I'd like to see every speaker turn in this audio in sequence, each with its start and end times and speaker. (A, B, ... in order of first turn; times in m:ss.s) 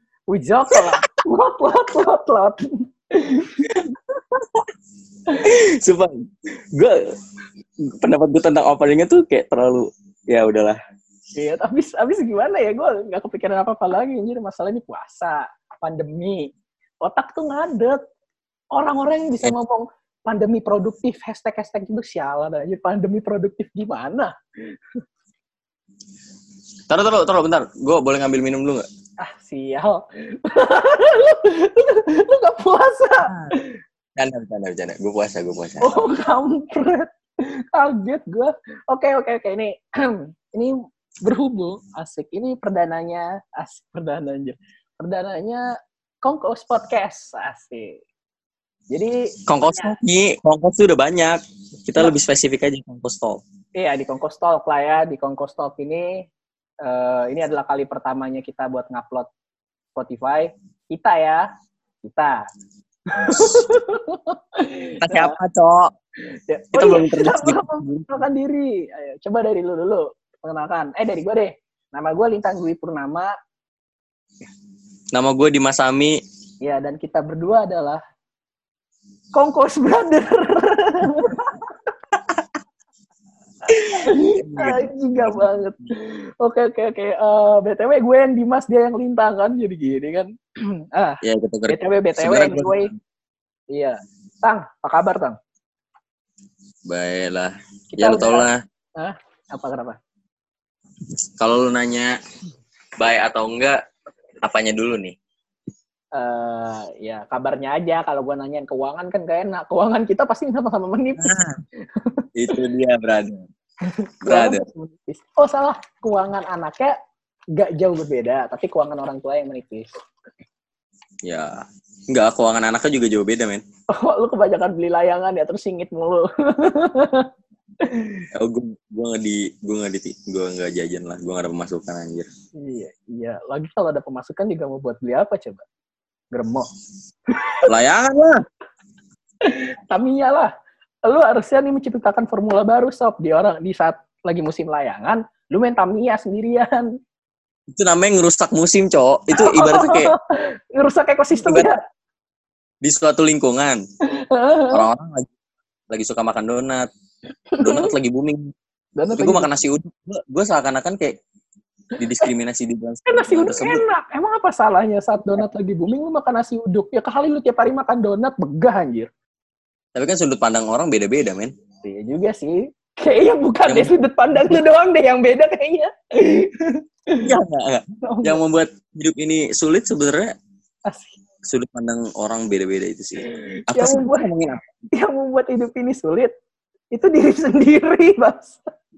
0:00.3-0:04.4 A
0:05.4-0:06.2 B
0:06.7-0:07.0 B
0:07.9-0:10.8 B
0:11.4-0:18.0 A
0:18.7-0:25.0 A
0:26.9-0:28.8 B
0:29.2-0:33.7 A
0:34.2-0:36.0 B
0:35.8-0:45.6 A
0:46.2-0:48.0 A
0:48.9-0:49.9 A
0:49.5-0:53.4 B
0:53.7-0:56.3 A
0:56.8-0:59.3 A
1:00.0-1:01.5 A
1:02.0-1:02.4 A
1:03.1-1:05.4 A
1:03.2-1:03.6 B
1:05.0-1:05.9 B
1:06.5-1:13.3 A
1:06.7-1:08.2 B
1:15.1-1:16.2 B
1:16.6-1:18.0 A
1:19.3-1:21.7 A
1:23.7-1:32.9 A
1:24.0-1:25.5 B
1:31.2-1:32.9 B
1:33.7-1:35.4 A
1:36.9-1:38.6 B
1:37.9-1:40.0 A
1:41.4-1:42.2 B
1:43.0-1:43.8 B
1:44.4-1:45.2 B
1:46.1-1:51.3 A
1:51.2-1:51.6 B
1:52.0-1:52.6 A
1:52.4-1:53.5 B
1:53.8-1:56.9 A
1:54.2-1:54.6 B
1:57.5-1:59.9 A
2:01.2-2:03.6 B
2:03.9-2:07.3 A
2:07.8-2:08.3 A
2:08.3-2:12.3 B
2:12.6-2:15.6 A
2:16.3-2:16.7 A
2:17.3-2:17.7 A
2:17.6-2:18.4 B
2:19.4-2:20.5 A
2:21.0-2:26.9 A
2:27.7-2:30.1 B
2:29.3-2:31.8 A
2:31.4-2:31.8 B
2:32.8-2:33.8 B
2:34.0-2:34.9 A
2:34.7-2:35.3 B
2:35.9-2:36.9 B
2:37.5-2:37.9 A
2:37.6-2:38.5 B
2:39.0-2:39.5 A
2:39.2-2:41.2 B
2:42.0-2:43.8 B
2:43.1-2:49.1 A
2:49.9-2:51.5 B
2:51.8-2:57.3 A
2:53.6-2:53.9 B
2:57.2-3:00.3 B
2:58.0-2:58.4 A
3:00.8-3:01.2 A
3:01.4-3:04.6 B
3:03.3-3:04.3 A
3:04.9-3:06.3 A
3:06.9-3:08.7 A